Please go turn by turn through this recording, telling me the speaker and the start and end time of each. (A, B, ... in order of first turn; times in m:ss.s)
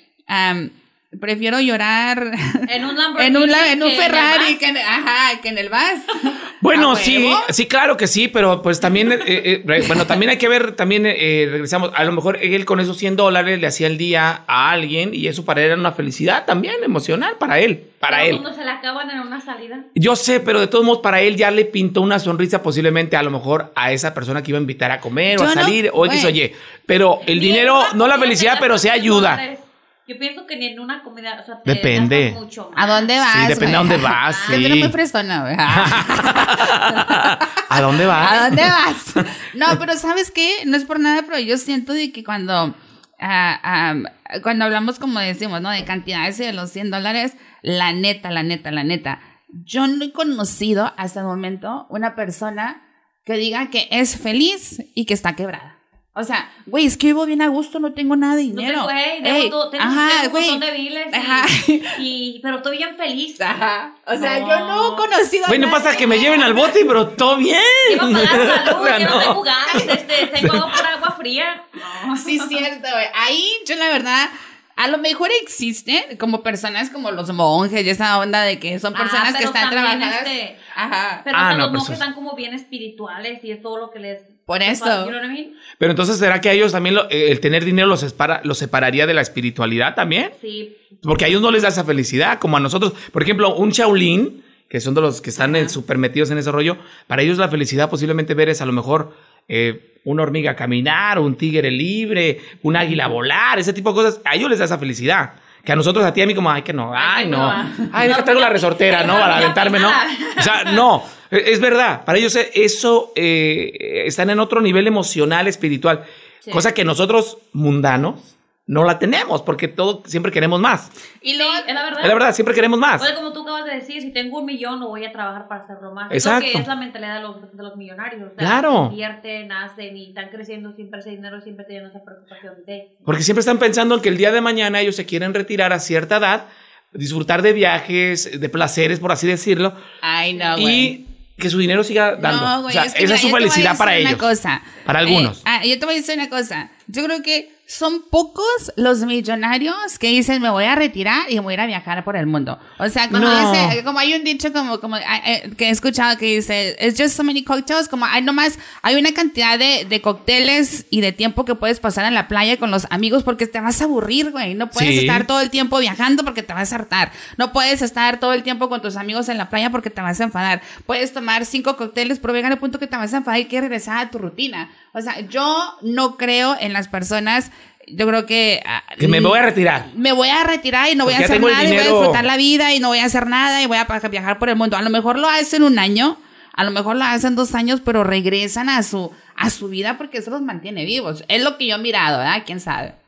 0:00.3-0:07.5 A
0:02.7-0:04.6 B
0:06.6-0:18.4 C
0:18.1-0:19.9 B
0:20.0-0:29.4 C
0:25.3-0:26.4 A
0:27.3-0:34.6 B
0:31.7-0:32.4 C
0:32.8-1:02.0 A
0:33.3-0:35.0 C
0:35.7-0:39.7 C
0:38.1-0:38.5 B
0:58.5-1:03.5 B
1:03.4-1:06.7 A
1:04.2-1:05.1 B
1:05.5-1:09.4 C
1:07.9-1:12.6 B
1:10.2-1:10.8 C
1:12.1-1:21.2 A
1:18.9-1:20.6 B
1:21.2-1:25.6 B
1:21.3-1:22.0 C
1:24.5-1:25.1 A
1:25.8-1:30.3 C
1:30.4-1:30.9 B
1:31.0-2:00.9 C
1:47.0-1:50.9 B
1:47.5-1:47.9 A
2:01.2-2:01.7 A
2:01.4-2:02.2 B
2:02.0-2:03.1 C
2:03.0-2:12.9 B
2:06.1-2:06.7 C
2:08.4-2:09.0 C
2:13.1-2:19.8 C
2:20.0-2:20.9 A
2:20.3-2:20.7 B
2:20.6-2:24.3 C
2:22.2-3:13.0 A
2:24.9-2:25.4 C
2:33.1-2:33.8 C
2:44.8-2:45.3 C
2:59.0-2:59.9 C
3:01.0-3:02.3 C